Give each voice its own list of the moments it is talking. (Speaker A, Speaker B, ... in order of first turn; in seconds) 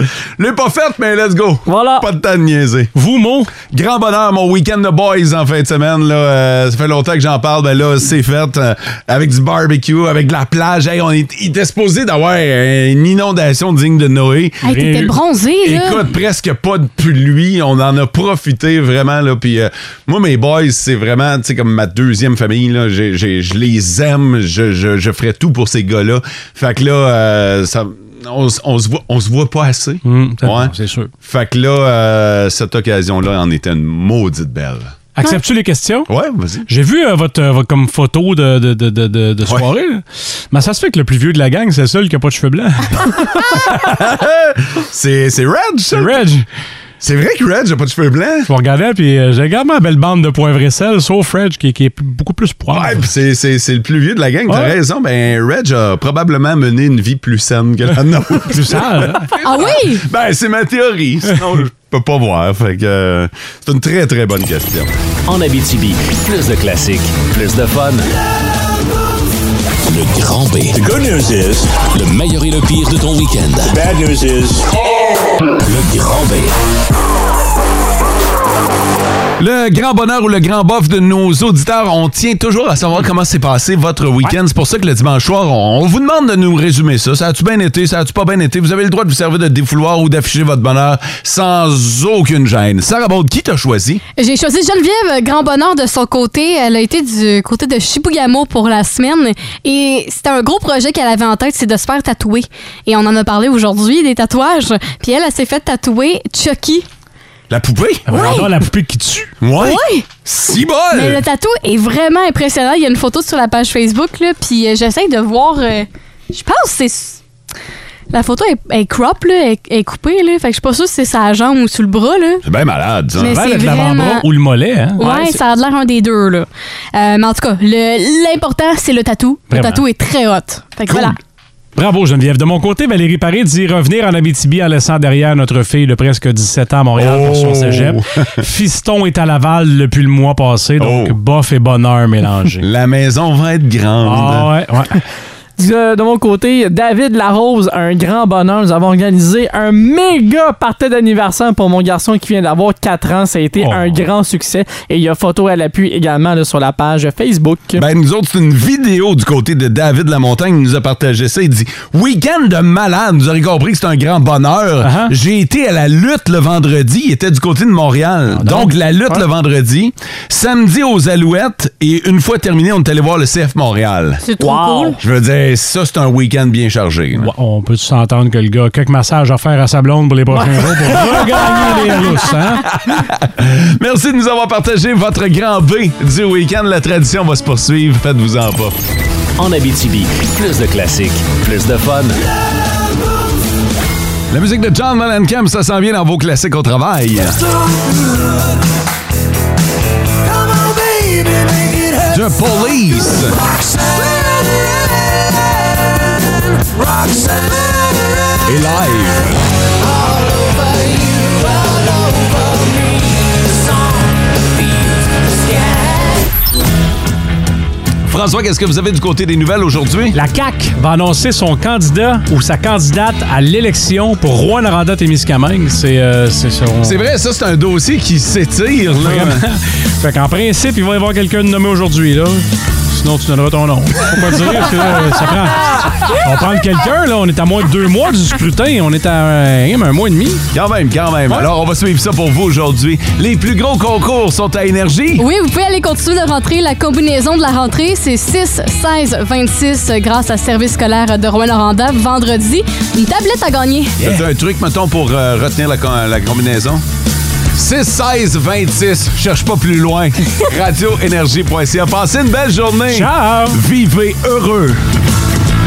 Speaker A: 0.4-2.9, 3.7-14.6, 15.6-35.0, 36.1-36.7, 43.7-46.2, 47.0-48.5, 52.7-64.9, 79.4-94.0, 107.5-108.1, 109.4-111.2, 122.4-123.4, 130.9-131.2, 137.0-138.4, 140.8-141.2, 142.6-144.5, 157.8-174.2, 175.0-177.3, 180.8-181.2, 182.7-188.8, 194.3-197.4, 202.1-203.5, 208.4-209.3, 218.1-220.2, 226.8-229.4, 240.5-245.3, 254.0-256.8, 257.5-264.8
Speaker B: 1.7-2.1, 125.0-125.4, 145.6-157.8, 174.4-175.0
Speaker C: 3.0-3.5, 14.7-15.1, 30.1-31.1, 35.2-36.1, 36.7-43.6, 45.9-46.5, 48.5-53.0, 54.5-54.8, 58.5-59.3, 108.1-109.3, 123.2-125.0, 129.5-129.8, 131.8-142.7, 144.0-145.0, 153.6-154.0, 164.8-165.1, 168.3-169.2, 177.2-182.7, 220.1-227.0, 229.0-240.4, 262.9-263.6
Speaker D: 14.6-16.1, 59.4-60.0, 94.2-106.9, 108.1-108.5, 109.6-110.1, 110.9-117.2, 118.1-122.4, 123.2-124.3, 125.0-131.2, 174.2-175.0, 245.2-254.0
Speaker E: 65.3-68.1, 69.9-74.7, 75.7-76.5, 189.4-192.3